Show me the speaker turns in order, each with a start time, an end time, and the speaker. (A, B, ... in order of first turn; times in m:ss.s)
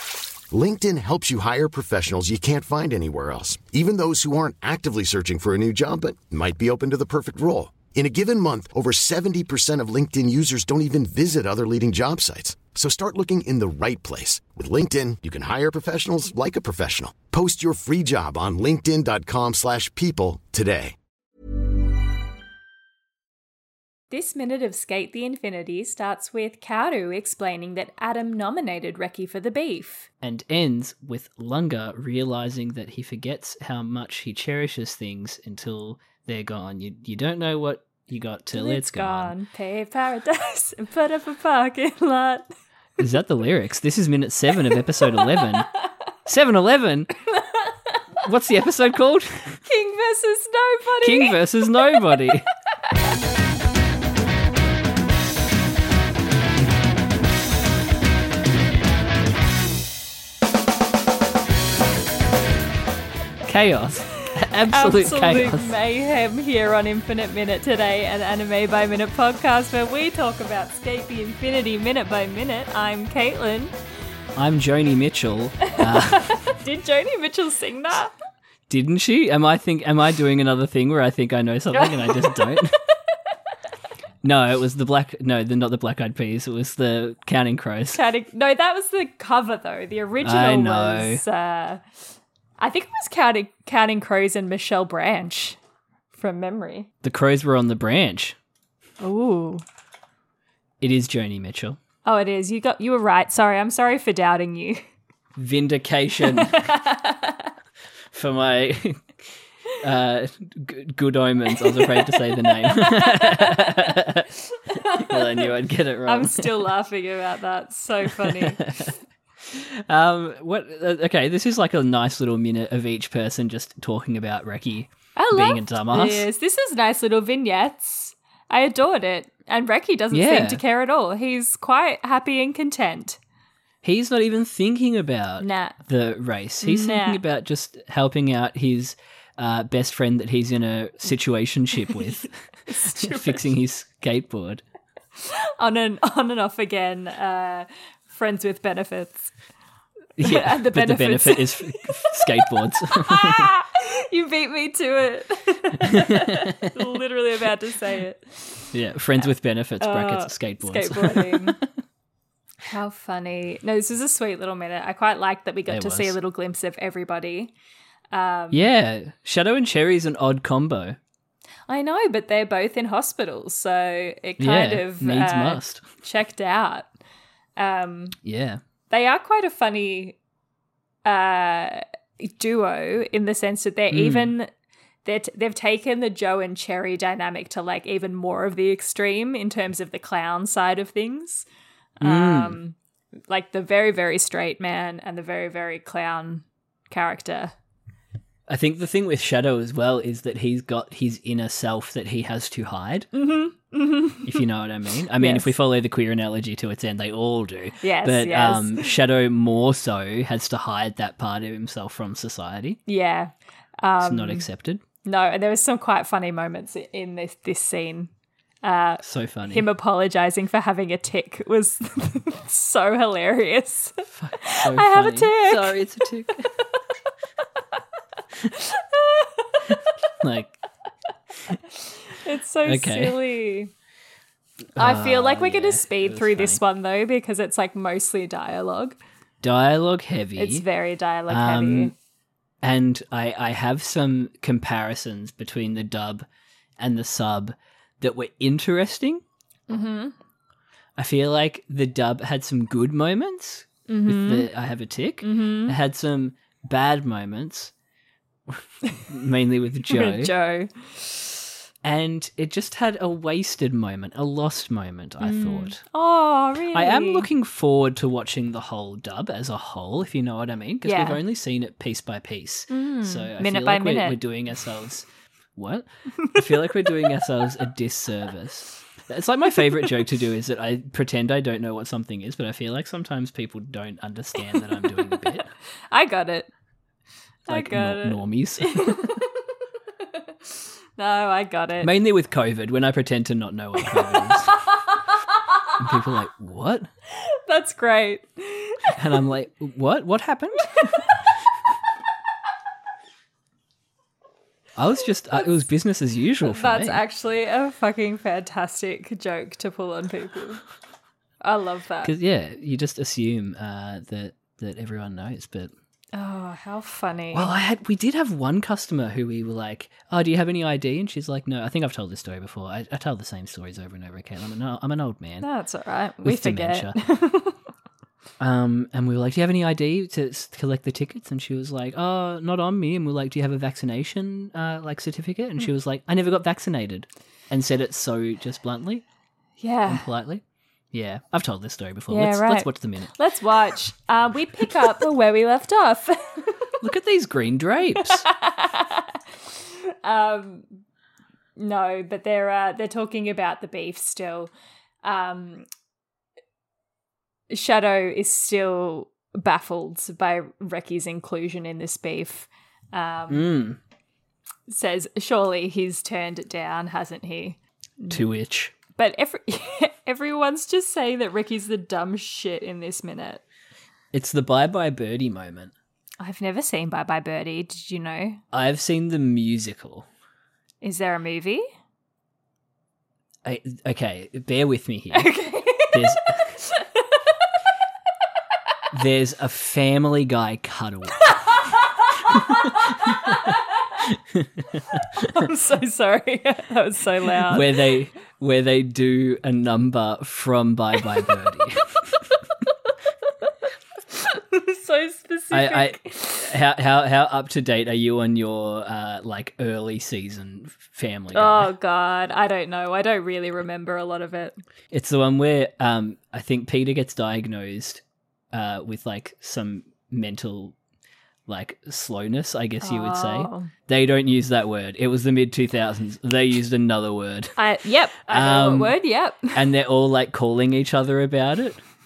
0:00.5-0:21.0 A
0:24.1-0:30.1 B
0:30.2-0:39.4 C
0:38.5-0:42.5 B
0:43.0-0:45.7 C
0:44.7-0:45.6 B
0:46.3-0:47.1 C
0:47.3-0:48.0 B
0:48.2-0:49.6 C
0:49.7-0:51.4 B
0:51.0-0:52.5 C
1:03.5-1:05.7 C
1:04.3-1:13.8 B
1:14.4-1:16.4 C
1:15.7-1:18.1 B
1:18.7-1:22.8 C
1:21.7-1:22.6 B
1:24.2-1:28.0 C
1:27.9-1:31.8 B
1:30.2-1:31.2 C
1:32.6-1:35.6 B
1:36.1-1:36.9 B
1:37.0-1:38.4 C
1:39.0-1:39.6 B
1:40.8-1:41.8 C
1:42.0-1:44.8 B
1:45.4-1:46.6 C
1:46.2-1:47.5 B
1:48.1-1:49.0 C
1:49.8-1:56.7 C
1:51.5-1:53.7 B
1:54.7-1:55.5 B
1:56.1-1:58.7 B
1:58.1-1:58.9 C
1:59.5-2:06.3 C
2:05.2-2:13.2 B
2:10.1-2:10.6 C
2:13.8-2:24.6 C
2:15.4-2:15.8 B
2:16.6-2:17.2 B
2:21.9-2:23.5 B
2:25.2-2:29.3 B
2:30.2-2:33.5 C
2:30.2-2:32.2 B
2:32.8-2:38.7 B
2:35.8-2:36.7 C
2:38.7-2:41.6 C
2:39.8-2:41.6 B
2:42.6-2:47.5 B
2:45.7-2:46.2 C
2:48.1-2:48.6 B
2:48.5-2:51.0 C
2:51.7-2:56.9 B
2:54.4-2:55.9 C
2:57.6-2:58.2 B
2:58.2-2:58.6 C
2:58.9-3:00.2 B
3:01.0-3:04.5 B
3:03.9-3:04.3 C
3:05.0-3:11.5 B
3:12.0-3:12.8 B
3:12.0-3:12.6 C
3:13.3-3:17.5 B
3:18.5-3:23.1 C
3:23.2-3:24.4 B
3:24.2-3:32.8 C
3:25.2-3:25.5 B
3:27.8-3:28.9 B
3:32.9-3:34.5 B
3:34.0-3:34.8 C
3:35.0-3:38.1 B
3:38.6-3:45.8 B
3:39.0-3:39.7 C
3:44.1-3:46.5 C
3:48.5-3:49.8 B
3:50.2-3:50.6 C
3:51.9-3:53.7 B
3:52.6-3:53.2 C
3:54.8-3:56.6 C
3:54.8-3:59.0 B
3:59.4-4:00.6 C
4:00.4-4:01.9 B
4:01.3-4:01.9 C
4:02.6-4:06.3 C
4:06.8-4:09.2 C
4:09.7-4:10.2 B
4:11.0-4:17.7 C
4:13.9-4:14.5 B
4:15.2-4:15.8 B
4:18.5-4:20.3 C
4:19.9-4:21.4 B
4:21.8-4:25.8 C
4:25.2-4:27.3 B
4:26.7-4:45.5 C
4:30.8-4:31.2 B
4:32.7-4:34.2 B
4:45.9-4:46.5 B
4:47.5-4:49.2 C
4:47.5-4:49.3 B
4:50.1-4:51.9 B
4:51.8-4:54.6 C
4:54.0-4:54.7 B
4:55.8-4:56.9 C
4:57.1-4:59.0 B
4:59.0-5:01.1 C
5:04.8-5:07.0 C
5:06.4-5:10.6 B
5:11.4-5:12.1 B
5:12.0-5:15.7 C
5:16.1-5:17.5 B
5:17.3-5:25.5 C
5:25.4-5:27.6 B
5:26.2-5:27.0 C
5:28.4-5:39.0 C
5:39.6-5:40.0 B
5:39.9-5:40.4 C
5:40.9-5:43.1 C
5:42.1-5:46.7 B
5:46.8-5:48.3 C
5:48.0-5:50.7 B
5:51.6-5:54.5 B
5:55.0-5:55.7 B
5:57.5-6:03.5 B
6:03.3-6:03.8 C
6:04.7-6:08.2 B
6:08.1-6:08.7 C
6:09.0-6:13.4 B
6:14.1-6:15.7 C
6:16.2-6:18.4 B
6:18.5-6:20.1 C
6:20.8-6:21.7 B
6:23.4-6:25.3 C
6:25.1-6:27.2 B
6:25.9-6:26.6 C
6:28.9-6:31.4 C
6:31.3-6:33.6 B
6:32.3-6:33.5 C
6:34.0-6:35.3 C
6:35.1-6:37.7 B
6:37.5-6:42.0 C
6:44.1-6:46.6 B
6:45.5-6:51.7 C
6:51.3-6:54.6 B
6:54.9-6:58.0 C
6:58.5-7:00.8 C
7:01.5-7:07.6 C
7:02.8-7:03.7 B
7:07.6-7:09.6 B
7:08.3-7:09.0 C
7:09.5-7:11.8 C